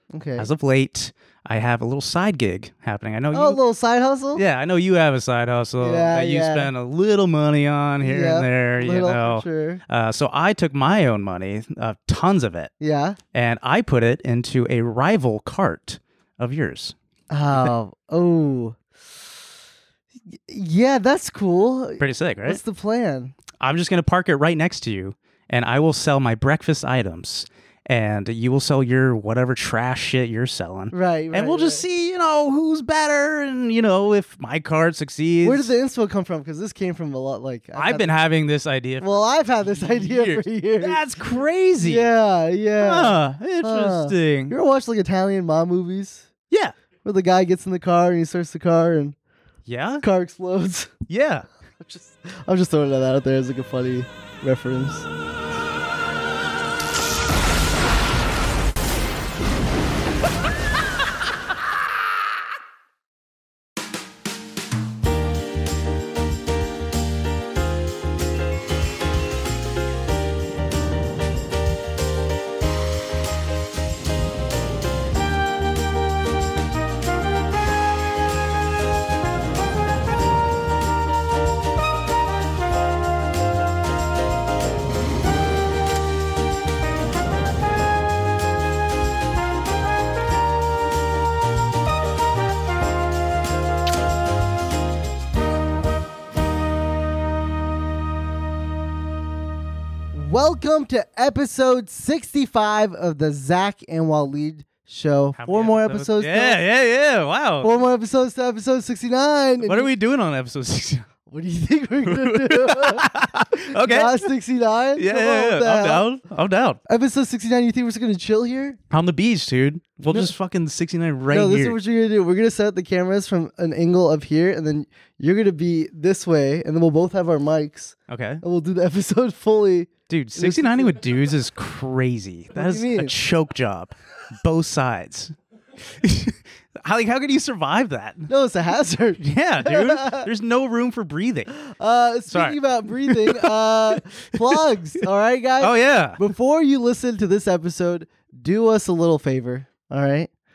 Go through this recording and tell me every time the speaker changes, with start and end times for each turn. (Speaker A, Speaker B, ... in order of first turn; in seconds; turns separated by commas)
Speaker A: 0.1-0.5, Speaker B: 0.4-3.6, Speaker A: 3.3-4.4, Speaker B: 4.3-12.7, Speaker A: 5.8-6.7, Speaker A: 8.0-9.8, Speaker A: 12.8-13.2, Speaker B: 13.3-16.9, Speaker A: 17.3-18.8, Speaker A: 20.3-23.4, Speaker B: 22.0-22.6, Speaker B: 23.6-35.7, Speaker A: 30.9-31.8, Speaker A: 35.4-38.1, Speaker B: 37.8-42.1, Speaker A: 39.0-41.0, Speaker A: 41.8-46.3, Speaker B: 42.8-44.5, Speaker A: 47.0-49.2, Speaker B: 49.7-50.0, Speaker A: 50.0-50.9, Speaker B: 51.1-51.5, Speaker A: 51.8-55.1, Speaker A: 100.1-106.6, Speaker B: 105.4-107.7, Speaker A: 107.6-109.9, Speaker B: 109.6-111.1, Speaker A: 111.3-116.1, Speaker B: 112.0-114.3, Speaker B: 115.0-116.8, Speaker A: 116.9-118.8, Speaker B: 118.9-121.8, Speaker A: 121.3-131.0, Speaker B: 128.1-128.4, Speaker B: 130.1-135.3, Speaker A: 132.6-133.1, Speaker B: 136.0-138.3, Speaker A: 138.3-140.3, Speaker B: 139.2-141.5, Speaker A: 141.6-150.3, Speaker B: 142.3-143.5, Speaker B: 145.6-146.2